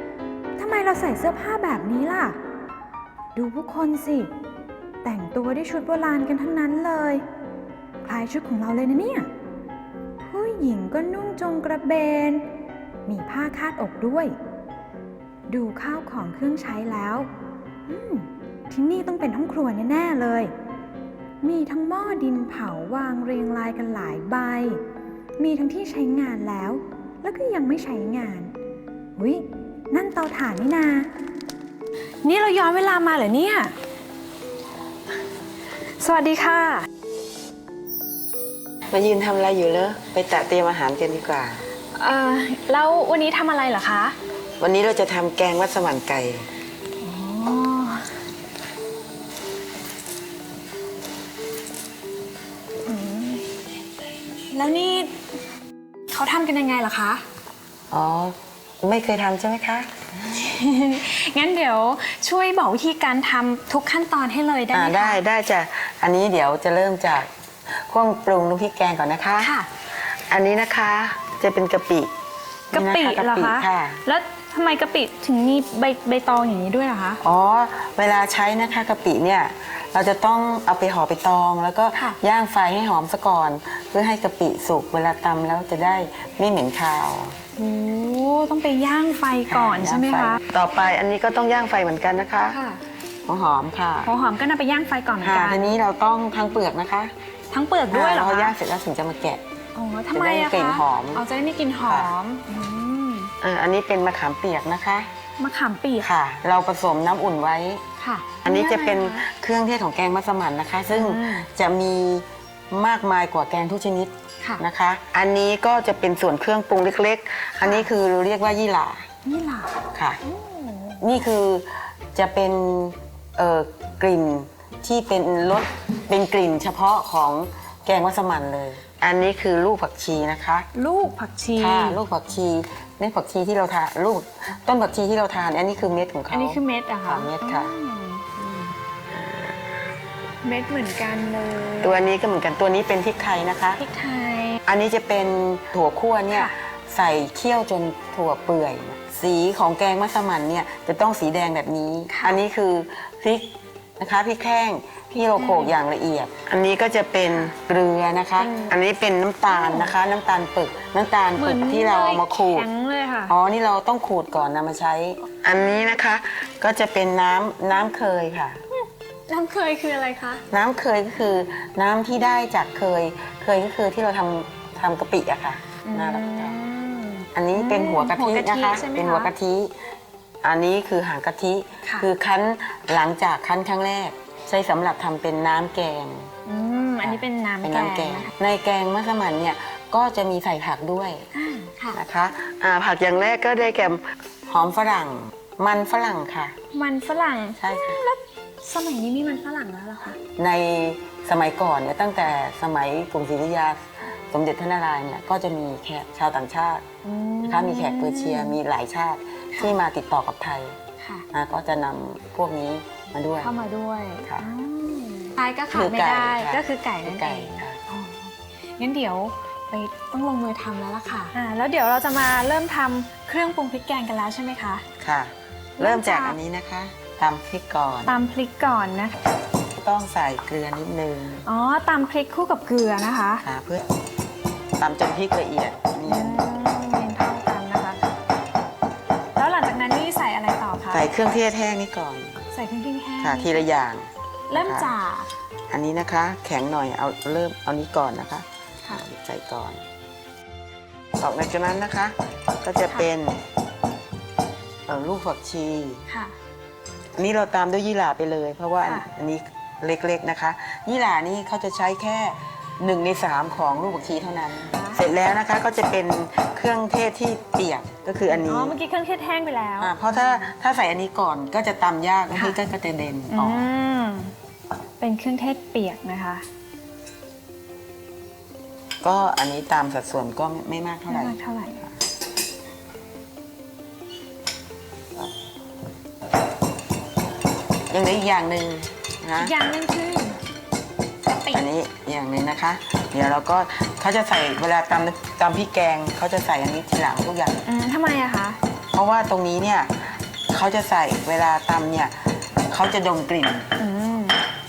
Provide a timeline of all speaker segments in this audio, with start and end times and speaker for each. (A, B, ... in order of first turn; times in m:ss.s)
0:00.6-0:02.4 A
0:03.4-0:04.3 A
0:05.0-0:07.2 A
0:08.0-0:09.3 A
0:10.2-0:12.5 A
0:13.1-0:14.4 A
0:15.5-0:17.3 A
0:17.9-0:20.5 A
0:21.4-0:24.8 A
0:25.4-0:28.6 A
0:29.2-0:31.1 A
0:32.2-0:33.7 A
0:36.0-0:36.9 A
0:38.9-0:41.6 B
0:42.0-0:44.2 A
0:44.6-0:46.5 B
0:47.0-0:48.1 A
0:52.9-0:53.4 A
0:54.5-0:55.1 A
0:56.1-0:57.2 A
0:57.9-0:59.9 B
1:00.2-1:05.2 A
1:04.7-1:09.5 B
1:09.4-1:09.7 A
1:10.1-1:12.1 B
1:12.7-1:17.2 A
1:12.7-1:14.0 B
1:17.2-1:27.4 B
1:27.6-1:30.4 A
1:29.5-1:32.6 B
1:32.5-1:32.8 A
1:33.3-1:34.1 B
1:34.0-1:35.8 A
1:35.2-1:37.1 B
1:37.5-1:38.6 A
1:37.9-1:39.4 B
1:39.8-1:43.3 A
1:40.1-1:41.2 B
1:41.9-1:42.1 B
1:43.4-1:45.1 B
1:45.4-1:46.1 A
1:46.0-1:47.8 B
1:48.0-1:49.2 A
1:48.4-1:59.1 B
1:50.9-1:51.5 A
1:57.6-1:57.9 A
1:59.2-2:01.0 A
1:59.9-2:00.2 B
2:01.0-2:10.7 B
2:10.8-2:12.0 A
2:11.6-2:17.7 B
2:16.3-2:18.7 A
2:19.1-2:19.5 B
2:20.4-2:22.1 A
2:21.8-2:23.8 B
2:23.8-2:24.6 A
2:24.7-2:42.7 B
2:32.1-2:32.4 A
2:35.3-2:35.8 A
2:38.4-2:38.8 A
2:39.5-2:39.9 A
2:41.4-2:43.4 A
2:43.3-2:48.6 B
2:48.7-2:50.4 A
2:50.5-2:56.6 B
2:55.8-2:59.3 A
2:57.4-2:59.7 B
3:00.4-3:06.3 B
3:06.5-3:08.3 A
3:07.0-3:11.3 B
3:11.3-3:12.0 A
3:11.9-3:16.6 B
3:16.7-3:20.2 A
3:17.6-3:18.0 B
3:20.4-3:26.8 B
3:27.0-3:28.6 A
3:27.4-3:30.8 B
3:31.0-3:31.3 A
3:31.3-3:33.5 B
3:33.4-3:44.8 A
3:35.7-3:37.8 B
3:45.0-3:48.2 B
3:45.8-3:46.4 A
3:48.1-3:49.2 A
3:49.8-3:51.4 B
3:51.4-3:53.4 A
3:53.4-3:53.8 B
3:54.8-3:56.5 B
3:56.0-3:58.0 A
3:59.4-4:01.1 A
4:00.9-4:02.4 B
4:02.5-4:03.6 A
4:03.2-4:04.9 B
4:04.5-4:05.3 A
4:05.7-4:09.8 B
4:11.2-4:13.4 B
4:14.9-4:16.0 B
4:16.1-4:16.4 A
4:17.2-4:28.8 B
4:24.6-4:25.0 A
4:28.3-4:30.5 A
4:29.8-4:33.7 B
4:33.3-4:34.3 A
4:35.0-4:36.4 A
4:39.0-4:41.4 B
4:41.1-4:41.8 A
4:47.9-4:49.5 B
4:49.4-4:50.4 A
4:51.3-4:51.6 A
4:51.5-4:57.6 B
4:57.6-4:58.6 A
4:58.9-5:02.2 B
5:02.7-5:03.7 B
5:03.8-5:04.4 A